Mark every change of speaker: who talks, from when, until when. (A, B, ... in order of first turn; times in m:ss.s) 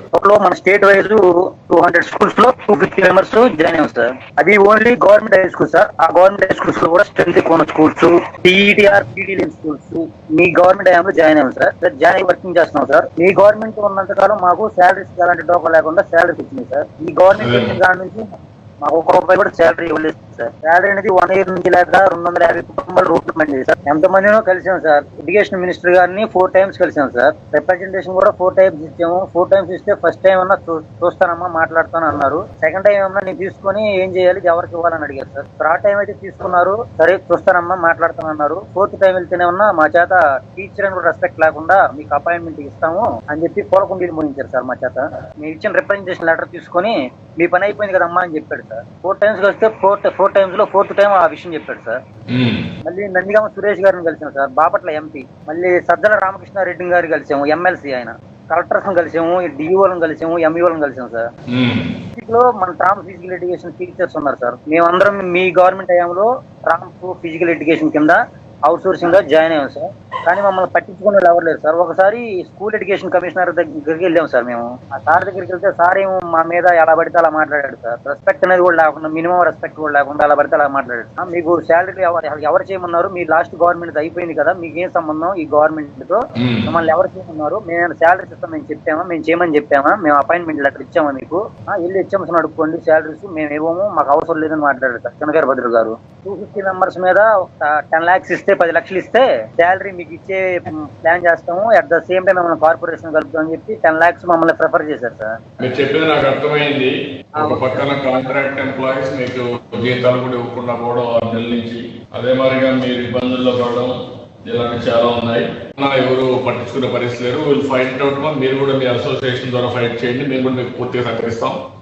0:00.1-0:18.2 A
0:17.4-0:17.8 B
0:18.8-0:52.0 A
0:52.3-0:52.6 B
0:52.8-1:01.2 A
1:01.5-1:01.8 B
1:02.2-1:45.3 A
1:26.4-1:26.7 B
1:45.6-1:53.9 B
1:47.4-1:47.8 A
1:54.5-2:01.6 B